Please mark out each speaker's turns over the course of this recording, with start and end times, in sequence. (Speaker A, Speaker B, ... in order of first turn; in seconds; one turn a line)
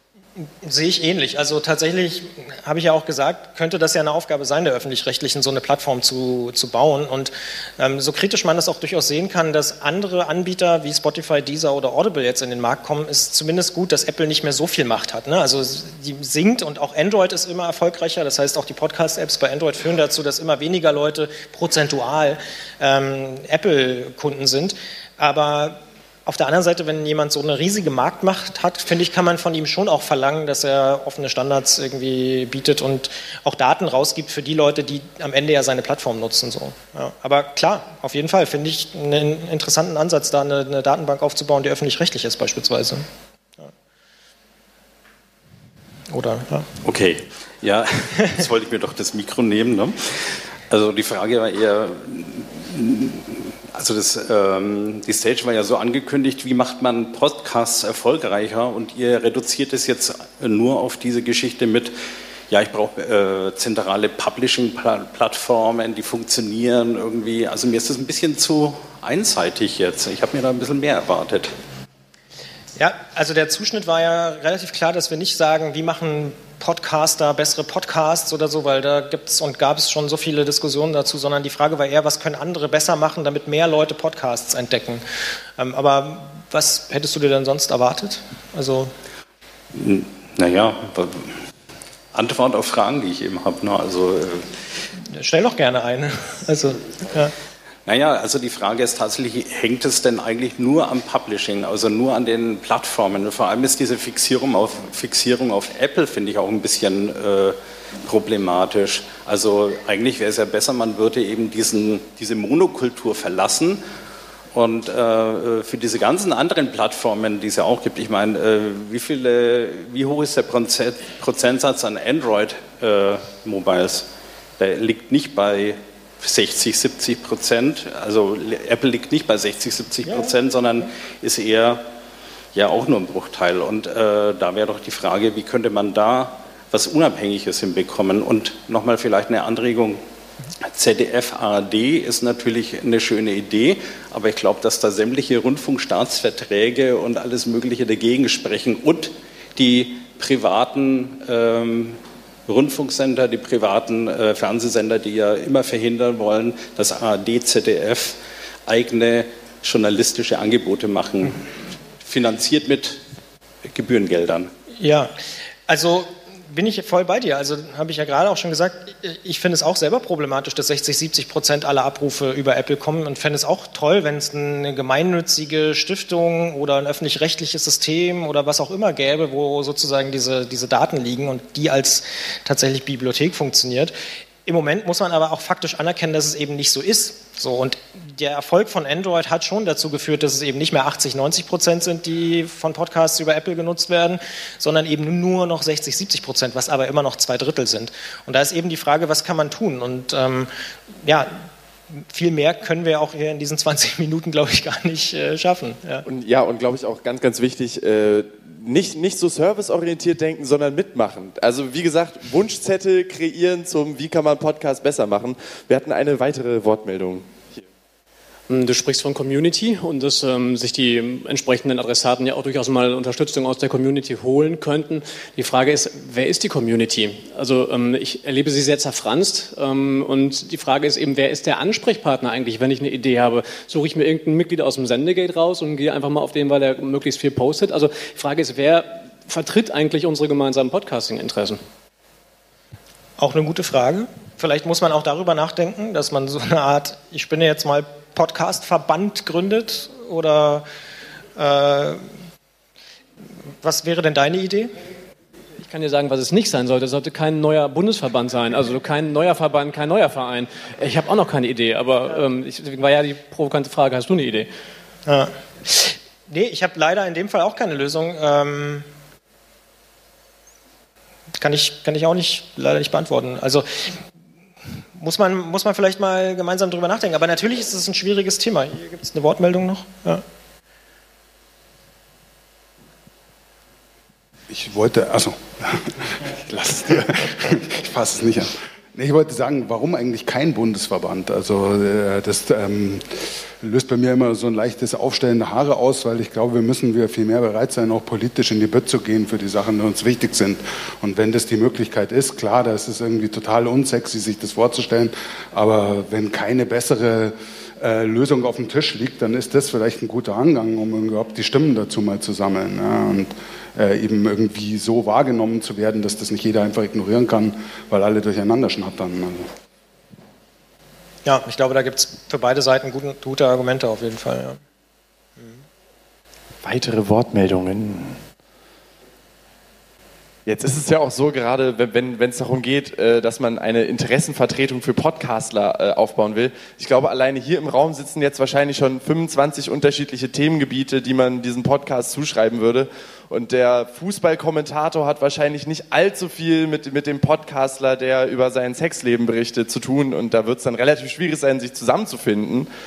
Speaker A: 0.6-43.0
Speaker A: 46.1-46.7
Speaker B: 46.8-61.9
Speaker B: 62.5-71.5
Speaker A: 72.8-85.0
Speaker A: 85.6-88.9
Speaker B: 89.7-91.4
Speaker B: 92.1-94.5
Speaker A: 95.1-97.3
Speaker B: 97.8-113.8
Speaker B: 114.5-124.1
Speaker B: 124.6-131.8
Speaker B: 132.5-140.0
Speaker B: 140.6-163.0
Speaker B: 163.6-164.5
Speaker A: 164.8-165.1
Speaker A: 165.7-183.9
Speaker A: 184.4-200.5
Speaker A: 201.0-206.0
Speaker C: 206.1-217.6
Speaker D: 218.5-241.6
Speaker A: 243.2-250.7
Speaker A: 251.3-252.0
Speaker A: 253.6-254.7
Speaker D: 255.6-264.5
Speaker A: 265.1-268.9
Speaker A: 271.4-273.6
Speaker A: 275.0-280.2
Speaker E: 284.5-319.5
Speaker A: 321.2-324.6
Speaker C: 326.6-328.2
Speaker C: 330.4-352.7